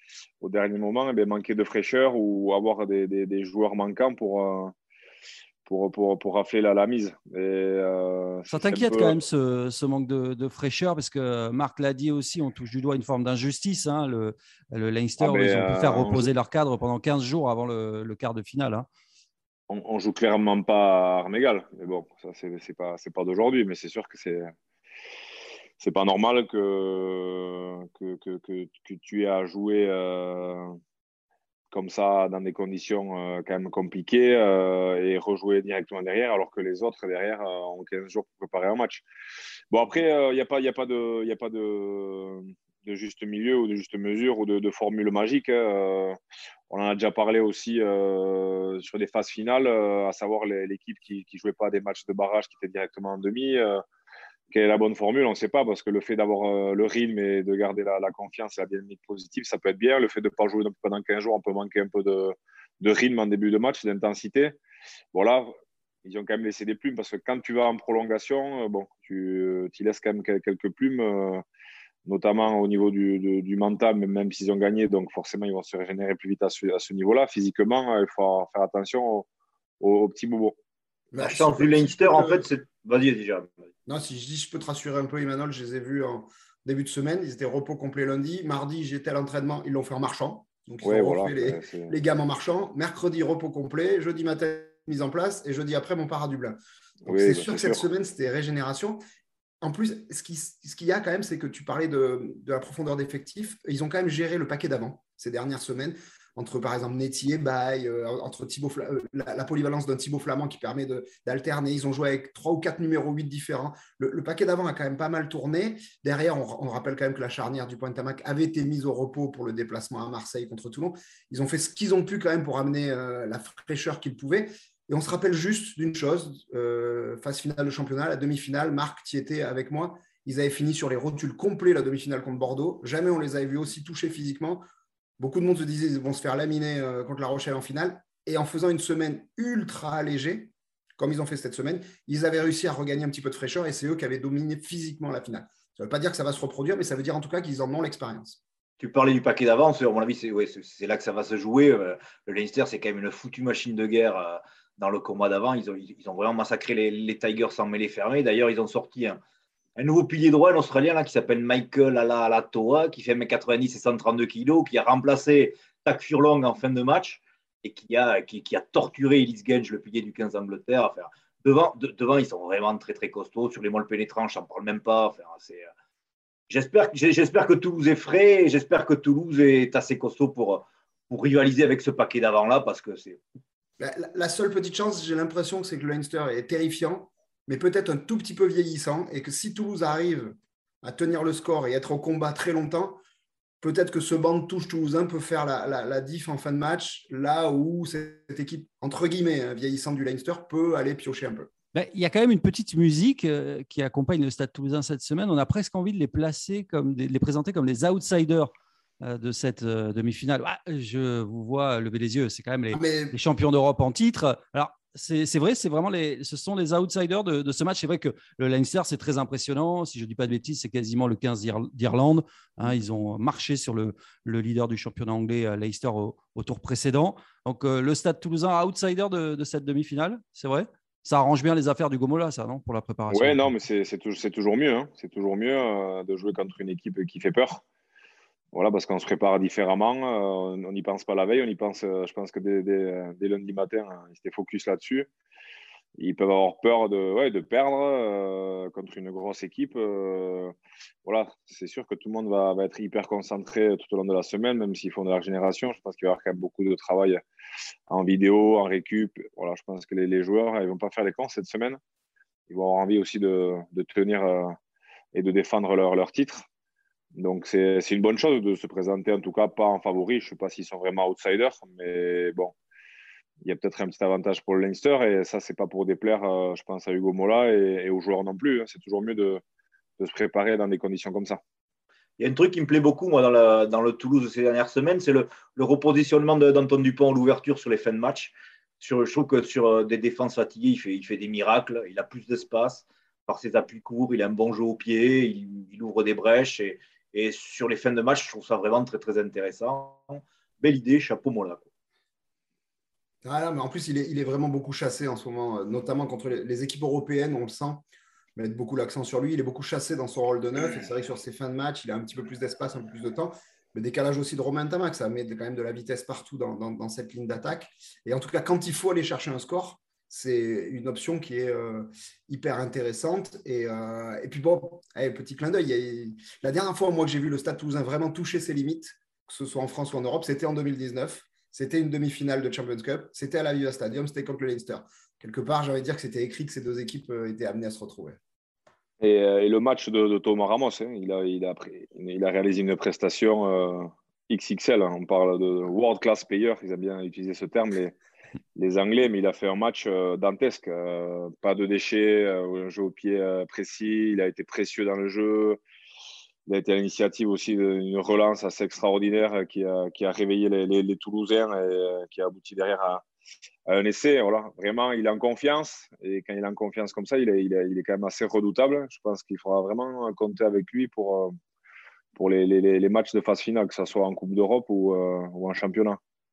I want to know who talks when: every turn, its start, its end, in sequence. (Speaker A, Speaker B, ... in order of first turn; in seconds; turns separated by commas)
Speaker A: 0.4-4.7, Speaker A: 5.7-9.2, Speaker B: 8.5-18.9, Speaker A: 15.2-16.3, Speaker A: 19.7-24.5, Speaker A: 25.8-30.7, Speaker A: 31.7-39.0, Speaker A: 39.7-46.2, Speaker A: 46.7-53.8, Speaker A: 54.5-64.6, Speaker A: 65.1-65.5, Speaker A: 66.0-71.4, Speaker A: 72.1-79.3, Speaker A: 79.8-80.6, Speaker C: 81.1-82.5, Speaker D: 81.2-83.5, Speaker C: 83.9-99.0, Speaker A: 90.8-91.9, Speaker A: 97.0-97.8, Speaker C: 99.6-134.6, Speaker C: 135.2-148.4, Speaker D: 148.8-159.2, Speaker D: 159.8-175.7, Speaker D: 176.5-183.2, Speaker C: 183.8-193.0, Speaker C: 193.6-201.5, Speaker B: 201.7-233.4, Speaker C: 212.7-213.1, Speaker A: 233.1-237.6, Speaker A: 238.5-245.1, Speaker A: 246.0-250.5, Speaker A: 251.1-257.2, Speaker A: 257.9-261.8, Speaker A: 262.5-264.6, Speaker A: 265.1-266.5, Speaker A: 267.2-272.5, Speaker A: 273.4-279.4, Speaker A: 280.0-281.4, Speaker D: 282.2-301.7, Speaker C: 303.2-307.8, Speaker C: 308.4-338.2, Speaker A: 339.0-348.0, Speaker A: 348.6-355.6, Speaker A: 356.5-363.0, Speaker A: 363.7-371.4, Speaker A: 372.2-376.0